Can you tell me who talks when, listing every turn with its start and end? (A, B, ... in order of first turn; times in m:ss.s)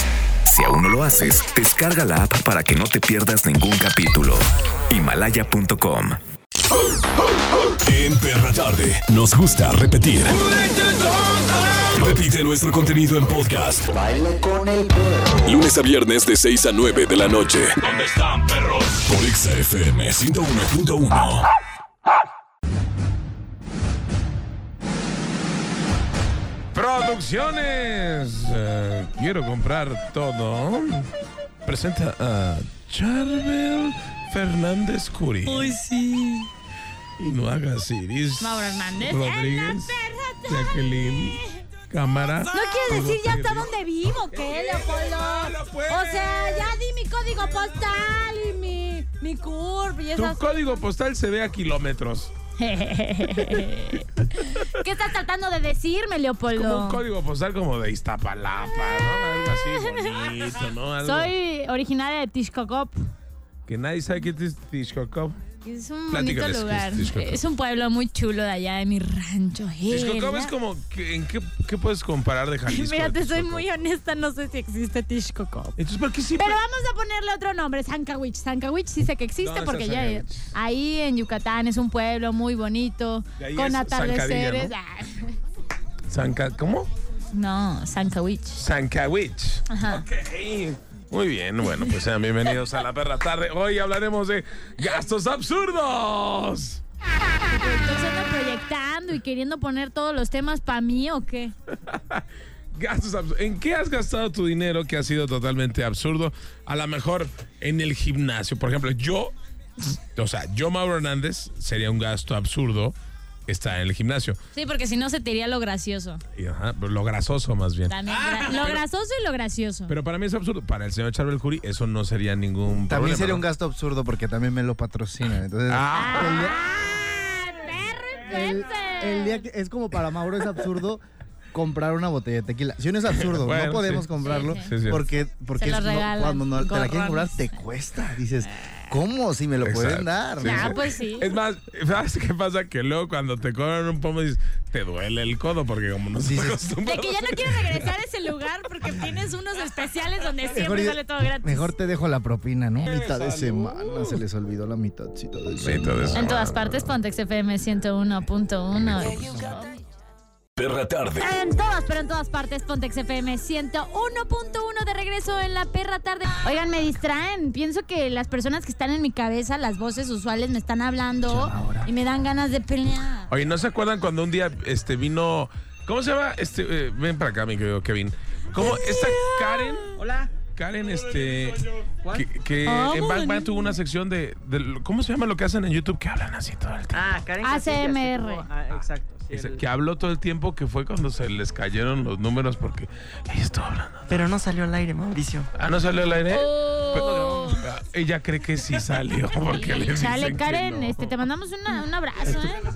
0:00.5-0:06.2 A
0:07.8-0:10.7 B
0:11.7-0:14.0 B
0:15.4-0:21.5 B
0:26.7-0:31.1 C
0:31.7-0:35.8 C
0:35.5-0:36.5 D
0:37.2-0:43.7 C
0:38.4-0:41.5 D
0:42.5-0:50.4 D
0:44.3-0:46.7 C
0:50.2-0:52.3 C
0:52.6-0:57.0 D
0:56.5-1:01.3 C
0:59.8-1:00.1 D
1:01.0-1:03.0 D
1:03.7-1:05.4 C
1:05.6-1:10.5 D
1:06.1-1:07.4 C
1:09.9-1:13.7 C
1:12.7-1:15.8 D
1:15.8-1:16.6 C
1:16.4-1:25.4 D
1:19.4-1:20.5 C
1:23.4-1:24.7 C
1:26.1-1:26.9 C
1:27.3-1:28.6 D
1:28.6-1:36.8 C
1:29.7-1:30.0 D
1:37.5-1:41.5 D
1:41.7-1:53.0 C
1:53.5-1:54.4 C
1:54.6-1:56.2 D
1:56.4-1:58.8 C
1:57.9-1:59.9 D
1:59.9-2:03.4 C
2:02.8-2:06.6 E
2:05.7-2:06.5 C
2:05.9-2:09.4 D
2:08.3-2:11.0 E
2:11.5-2:20.8 E
2:13.1-2:15.0 C
2:14.2-2:14.7 D
2:15.6-2:17.4 D
2:18.6-2:18.9 D
2:19.6-2:27.9 C
2:20.4-2:21.3 D
2:26.2-2:26.6 E
2:26.8-2:31.7 D
2:30.5-2:36.3 E
2:32.8-2:34.2 C
2:35.6-2:37.0 C
2:36.1-2:39.8 D
2:40.6-2:41.2 B
2:41.2-2:53.3 D
2:51.3-2:51.9 E
2:53.3-3:00.0 C
2:58.6-3:00.0 D
3:00.6-3:07.2 C
3:02.7-3:03.7 D
3:06.9-3:09.6 F
3:07.4-3:08.5 D
3:09.3-3:14.2 C
3:14.1-3:15.5 F
3:15.6-3:21.1 C
3:16.3-3:17.6 D
3:19.5-3:22.6 D